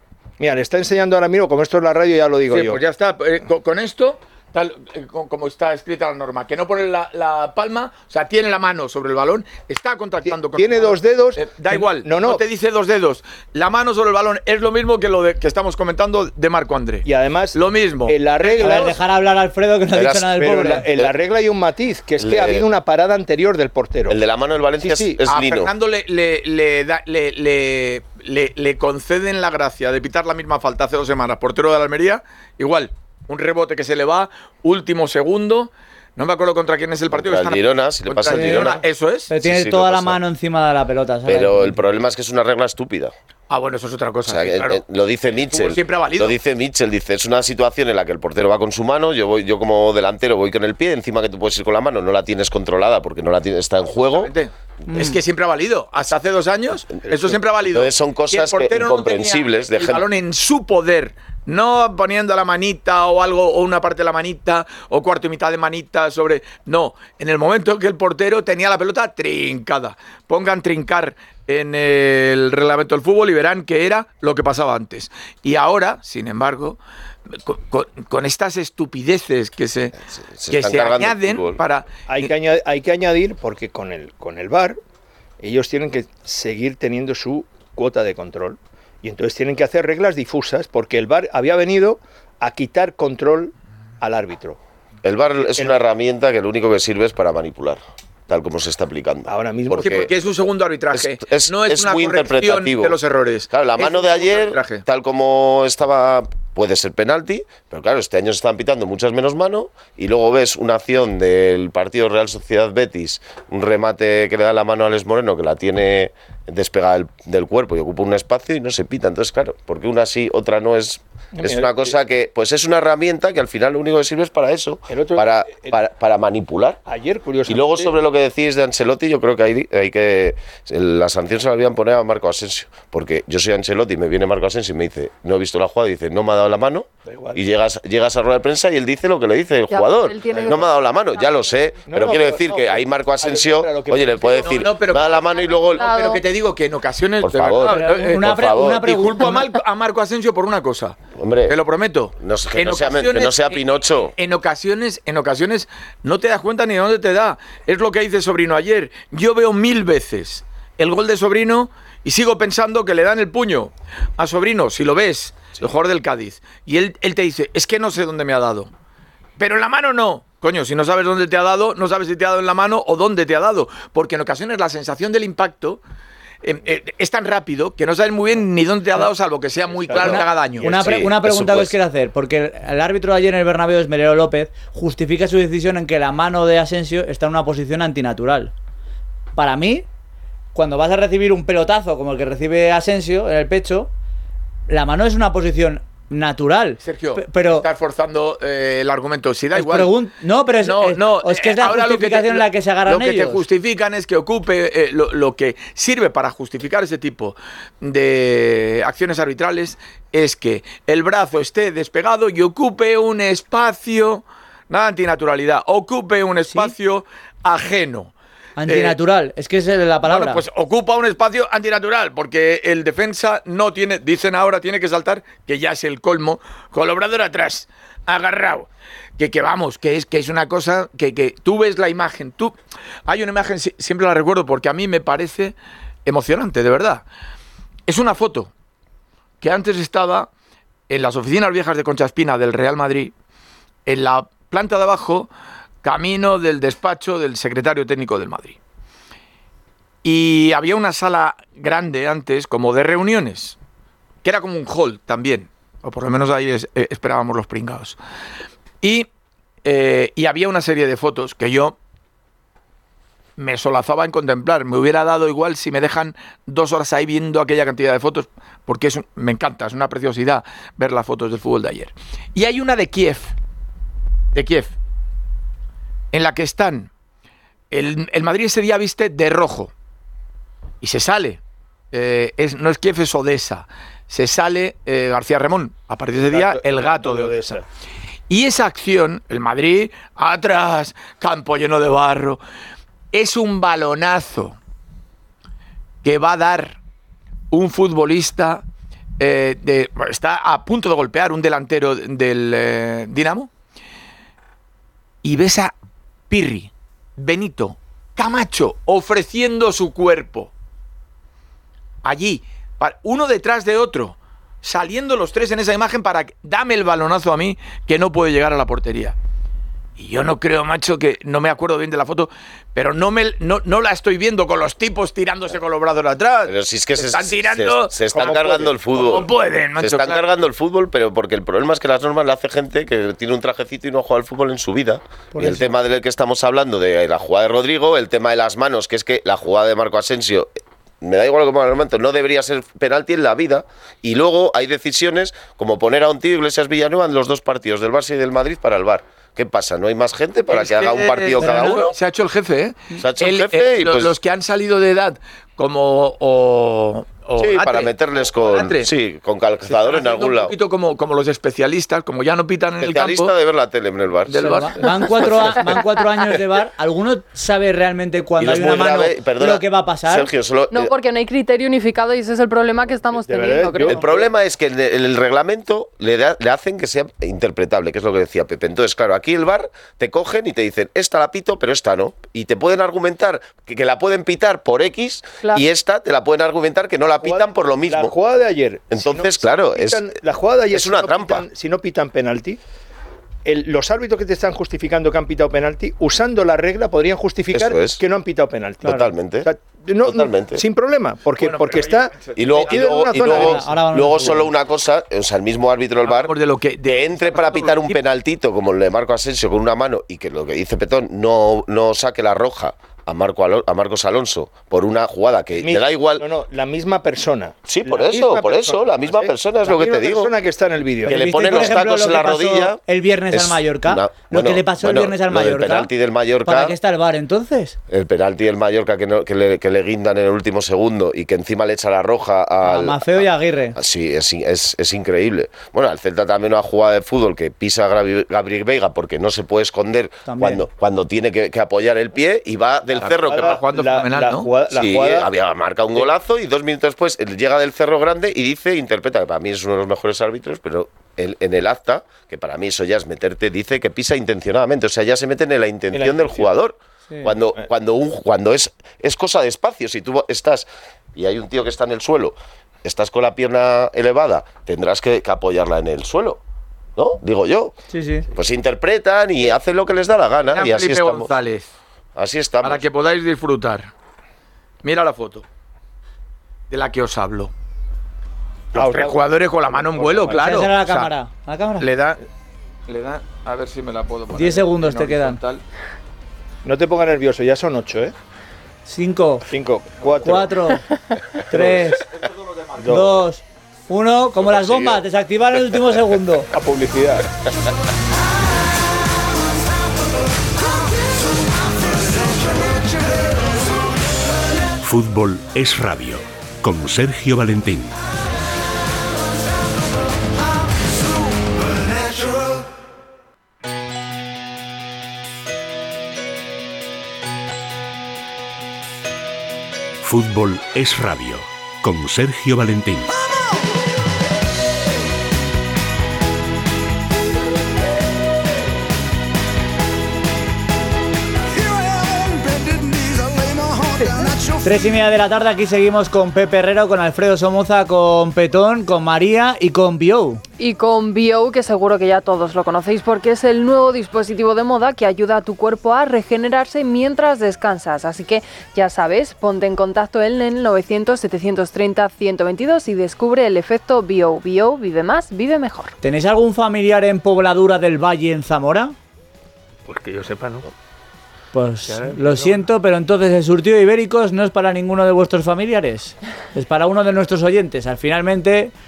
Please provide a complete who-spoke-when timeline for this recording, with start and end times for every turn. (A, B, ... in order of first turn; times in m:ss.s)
0:00.4-0:02.8 A
0:02.5-0:18.8 B
0:10.2-0:12.4 A
0:17.0-0:19.0 A
0:18.6-0:20.8 C
0:19.9-0:21.1 D
0:20.4-0:24.2 A
0:22.2-0:22.6 D
0:24.1-0:25.7 D
0:24.8-0:25.2 A
0:25.2-0:39.3 B
0:37.1-0:38.8 D
0:38.3-0:38.8 C
0:39.3-0:41.8 C
0:39.4-0:40.2 D
0:41.2-0:43.1 D
0:43.5-0:44.8 B
0:44.2-0:54.3 D
0:45.5-0:46.3 B
0:54.2-1:16.8 B
0:54.9-0:55.2 C
0:57.1-0:57.4 A
0:57.7-1:00.0 D
1:17.3-1:20.0 B
1:20.3-1:21.6 D
1:20.5-1:22.3 B
1:22.1-1:24.8 A
1:25.4-1:34.6 A
1:35.0-1:40.1 D
1:35.4-1:35.7 A
1:39.3-1:40.1 A
1:39.8-1:44.8 B
1:40.9-1:43.0 D
1:43.5-2:06.8 D
2:01.4-2:01.9 A
2:04.9-2:05.8 A
2:06.8-2:07.9 A
2:07.5-2:25.9 D
2:17.1-2:17.4 A
2:19.7-2:21.6 E
2:21.9-2:24.6 A
2:24.4-2:48.7 B
2:25.8-2:26.2 E
2:27.2-2:28.8 D
2:27.7-2:29.4 C
2:31.2-2:31.5 D
2:32.2-2:34.1 D
2:49.4-2:55.8 B
2:56.4-3:00.7 B
2:59.9-3:00.2 A
2:59.9-3:01.7 D
3:00.0-3:08.5 C
3:09.4-3:09.8 C
3:10.5-3:13.9 C
3:14.7-3:17.7 C
3:16.8-3:19.9 B
3:19.5-3:23.4 C
3:20.6-3:38.1 B
3:36.5-3:36.7 C
3:38.6-3:40.4 C
3:38.6-3:39.0 B
3:40.1-3:52.5 B
3:53.1-3:55.5 B
3:56.0-3:57.0 B
3:57.9-3:58.5 B
3:59.4-4:00.3 B
4:00.9-4:03.1 B
4:03.8-4:05.3 B
4:05.8-4:08.6 B
4:10.0-4:13.6 B
4:14.2-4:18.0 B
4:18.8-4:19.1 B
4:19.6-4:21.8 B
4:23.4-4:33.3 B
4:34.3-4:34.7 B
4:36.1-4:36.9 B
4:37.7-4:39.7 B
4:40.8-4:41.4 B
4:41.9-4:47.4 B
4:46.2-4:47.6 A
4:48.3-4:52.4 B
4:53.1-4:54.6 B
4:56.0-4:56.8 B
4:57.5-4:58.6 B
4:59.2-5:03.5 B
5:05.2-5:05.7 B
5:06.3-5:10.5 B
5:12.0-5:19.1 B
5:20.0-5:30.3 B
5:26.4-5:52.0 D
5:28.1-5:28.7 A
5:35.3-5:35.7 C
5:50.5-5:58.9 B
5:51.4-5:51.8 C
5:52.9-5:54.1 D
5:57.4-6:00.5 D
5:59.6-6:03.3 B
6:02.8-6:04.7 D
6:04.2-6:05.2 B
6:04.4-6:10.3 C
6:05.2-6:05.8 D
6:08.4-6:10.9 D
6:10.7-6:14.1 E
6:13.1-6:14.3 A
6:13.8-6:28.1 D
6:27.2-6:32.6 A
6:28.9-6:30.1 D
6:30.7-6:31.5 D
6:33.4-6:43.6 A
6:37.5-6:38.0 D
6:38.8-6:39.5 D
6:40.0-6:40.6 D
6:41.3-6:42.8 B
6:42.4-6:56.3 D
6:43.2-6:44.4 C
6:46.0-6:48.0 B
6:55.6-7:01.8 A
6:57.6-7:00.3 D
7:01.0-7:06.8 D
7:01.0-7:05.9 C
7:06.4-7:07.8 C
7:07.9-7:23.6 D
7:12.6-7:13.8 C
7:20.2-7:20.7 C
7:23.0-7:24.5 B
7:23.0-7:25.3 A
7:24.7-7:46.4 D
7:35.9-7:36.5 A
7:47.0-7:47.7 D
7:47.9-7:48.3 C
7:48.3-7:51.3 D
7:50.5-7:51.7 B
7:52.2-7:52.8 D
7:52.6-7:53.9 B
7:54.8-7:55.4 B
7:56.7-7:57.5 B
7:58.7-8:00.4 A
7:58.7-8:01.1 B
8:00.3-8:01.9 C
8:01.8-8:02.2 B
8:02.9-8:05.6 B
8:04.3-8:05.4 C
8:06.6-8:08.1 A
8:08.8-8:09.5 C
8:09.5-8:10.6 A
8:10.2-8:10.8 C
8:11.5-8:12.0 C
8:11.5-8:11.9 A
8:12.8-8:13.2 A
8:12.9-8:16.5 C
8:16.5-8:17.2 A
8:24.8-8:27.9 F
8:40.0-8:43.1 F
8:54.0-8:54.3 E
8:54.6-9:00.4 C
9:00.6-9:15.9 E
9:16.0-9:18.9 C
9:19.9-9:20.7 A
9:21.5-9:28.7 C
9:21.9-9:22.6 A